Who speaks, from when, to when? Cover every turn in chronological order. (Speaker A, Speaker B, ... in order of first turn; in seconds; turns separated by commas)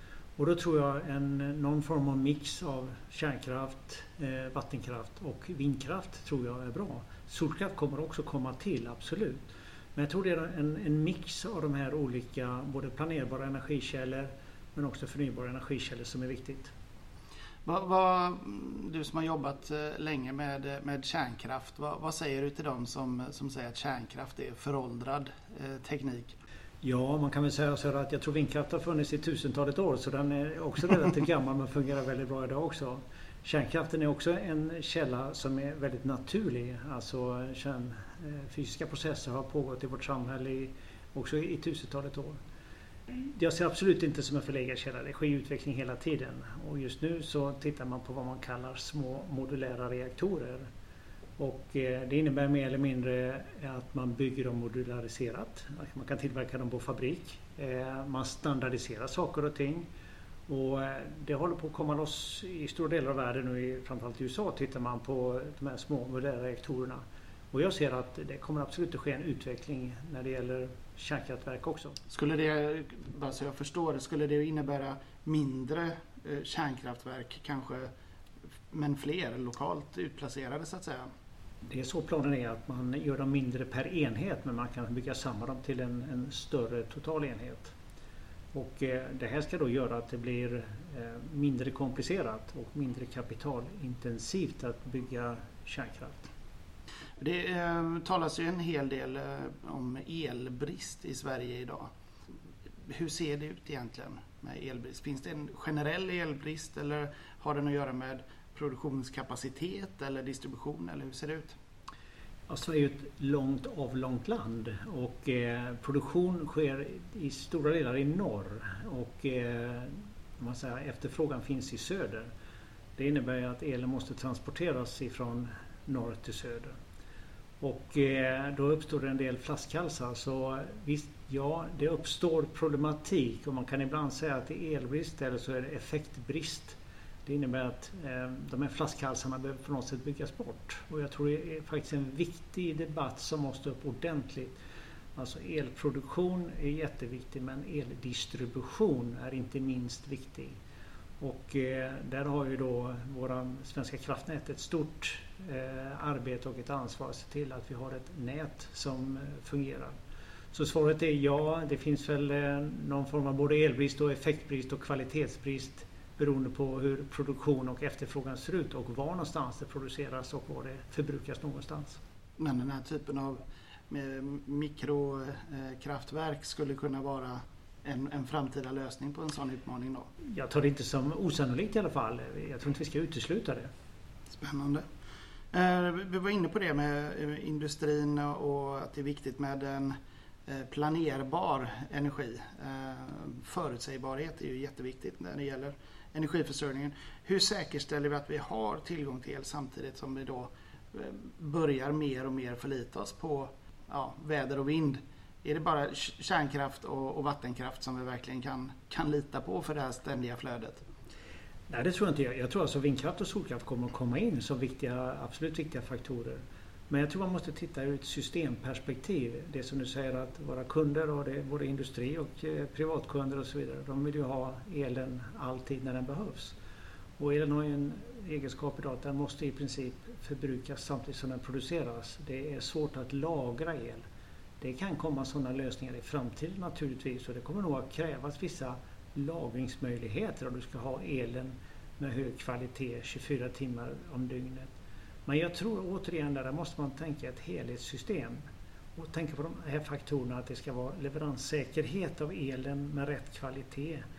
Speaker A: 0.4-16.7, Speaker B: 17.6-26.4, Speaker A: 26.8-42.4, Speaker A: 43.1-50.7, Speaker A: 51.4-59.9, Speaker A: 60.5-72.0, Speaker B: 72.1-77.9, Speaker B: 78.7-81.1, Speaker A: 81.7-87.8, Speaker A: 88.5-96.3, Speaker B: 97.2-101.9, Speaker B: 102.9-111.6, Speaker A: 112.5-122.3, Speaker A: 123.0-126.8, Speaker A: 127.6-144.6, Speaker A: 145.2-150.6, Speaker A: 151.2-159.9, Speaker A: 160.5-172.0, Speaker B: 172.4-180.1, Speaker A: 180.2-183.7, Speaker B: 184.3-184.8, Speaker B: 185.5-190.0, Speaker B: 190.5-210.8, Speaker A: 211.7-226.6, Speaker A: 227.2-234.1, Speaker A: 234.6-244.7, Speaker A: 245.3-248.4, Speaker A: 249.0-254.1